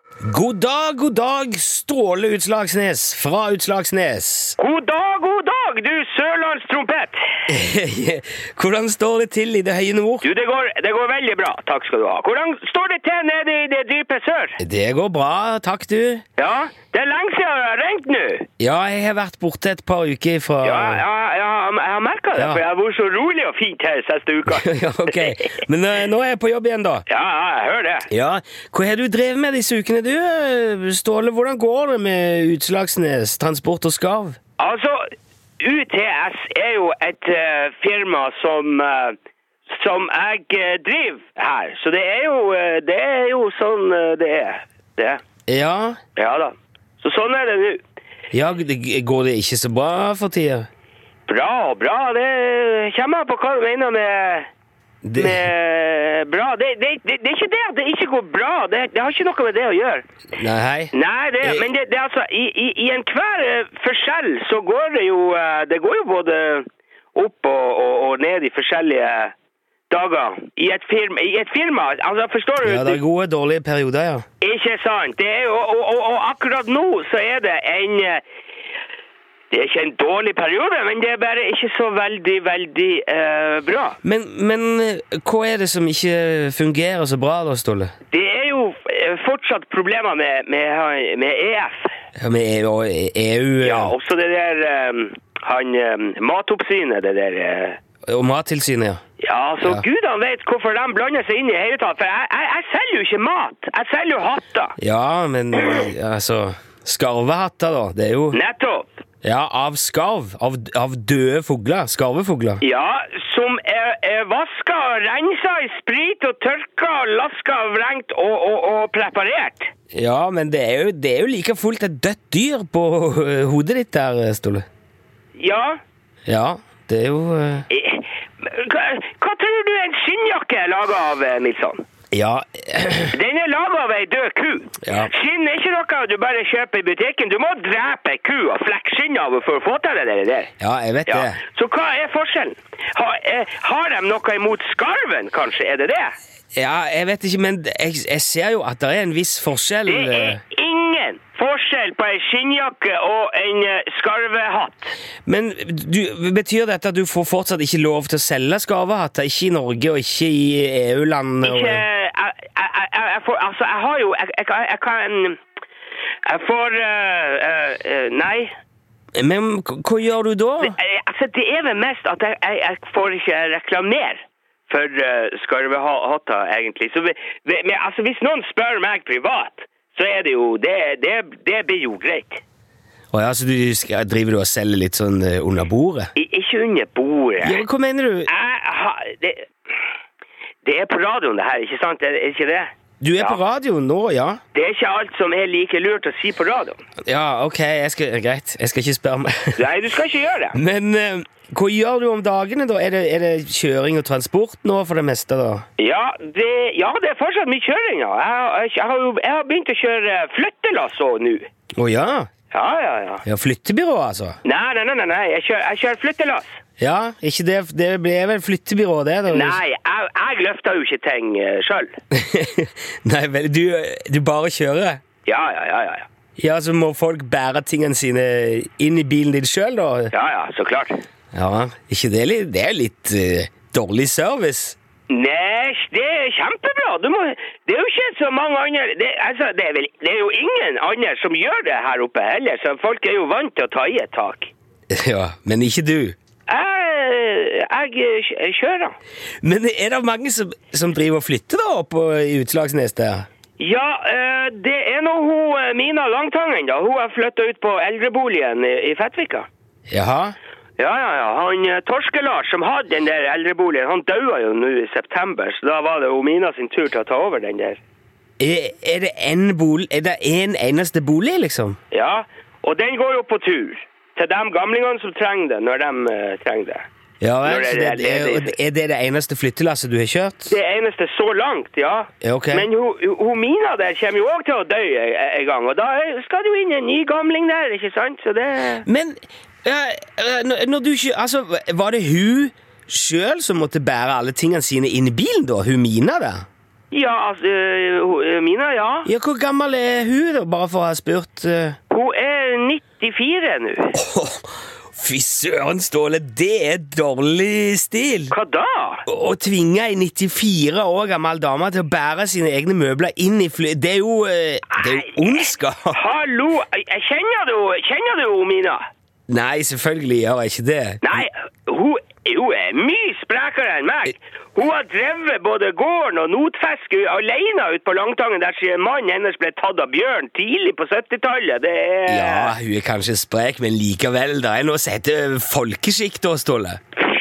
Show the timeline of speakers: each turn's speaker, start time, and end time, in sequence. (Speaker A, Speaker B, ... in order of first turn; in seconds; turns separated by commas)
Speaker A: 0.2-4.6, Speaker B: 4.6-7.2, Speaker A: 7.5-10.3, Speaker B: 10.2-14.6, Speaker A: 14.6-16.2, Speaker B: 16.4-18.5, Speaker A: 18.6-21.0, Speaker B: 20.6-25.6, Speaker A: 22.4-22.6, Speaker A: 24.5-27.1, Speaker B: 27.1-28.1, Speaker A: 28.1-34.4, Speaker B: 34.6-35.0, Speaker B: 35.6-39.2, Speaker B: 39.7-45.2, Speaker A: 45.5-46.0, Speaker B: 46.2-47.8, Speaker A: 48.3-50.7, Speaker B: 51.3-54.5, Speaker A: 55.0-55.5, Speaker B: 55.2-60.1, Speaker A: 60.4-61.7, Speaker B: 60.9-69.3, Speaker B: 69.9-73.0, Speaker A: 72.6-74.2, Speaker B: 74.4-78.2, Speaker B: 79.5-84.0, Speaker A: 84.0-87.9, Speaker B: 88.1-91.9, Speaker A: 92.2-94.0, Speaker B: 93.6-97.8, Speaker A: 98.1-99.0, Speaker B: 99.2-104.8, Speaker A: 104.8-108.4, Speaker B: 108.3-108.9, Speaker A: 109.2-112.6, Speaker B: 112.6-119.7, Speaker A: 119.9-124.7, Speaker B: 125.4-125.8, Speaker A: 126.3-127.7, Speaker B: 127.7-131.8, Speaker A: 132.1-133.2, Speaker B: 133.1-140.5, Speaker A: 134.8-135.1, Speaker A: 140.6-141.4, Speaker B: 141.1-146.1, Speaker A: 146.5-150.4, Speaker B: 149.9-154.9, Speaker A: 155.3-161.8, Speaker B: 161.4-165.4, Speaker B: 166.3-168.5, Speaker A: 169.2-170.8, Speaker B: 170.6-182.4, Speaker A: 183.1-186.1, Speaker B: 186.2-187.6, Speaker A: 187.4-188.3, Speaker B: 188.3-189.5, Speaker B: 190.6-193.4, Speaker A: 193.0-194.4, Speaker B: 194.5-196.8, Speaker A: 197.1-199.7, Speaker B: 199.6-200.6, Speaker A: 200.5-205.7, Speaker B: 205.8-211.5, Speaker A: 211.8-212.3, Speaker B: 212.5-213.2, Speaker A: 213.2-214.4, Speaker B: 214.4-216.6, Speaker A: 216.8-219.6, Speaker B: 219.3-222.0, Speaker A: 222.1-225.0, Speaker B: 225.3-226.1, Speaker A: 226.4-230.1, Speaker B: 230.1-230.9, Speaker A: 231.3-234.8, Speaker B: 235.1-244.5, Speaker A: 244.9-246.2, Speaker B: 246.5-248.9, Speaker A: 249.4-253.3, Speaker B: 253.6-259.5, Speaker A: 259.9-260.4, Speaker B: 260.8-267.8, Speaker A: 268.4-271.8, Speaker B: 271.9-276.9, Speaker A: 277.2-280.6, Speaker B: 277.4-278.6, Speaker B: 280.5-288.9, Speaker A: 282.2-282.7, Speaker A: 288.8-296.4, Speaker B: 296.9-299.1, Speaker A: 299.1-301.8, Speaker B: 301.9-304.0, Speaker A: 303.9-308.4, Speaker B: 308.3-309.0, Speaker A: 309.1-316.0, Speaker B: 314.7-315.3, Speaker B: 315.9-318.8, Speaker A: 319.3-321.3, Speaker B: 321.0-332.6, Speaker A: 332.1-336.8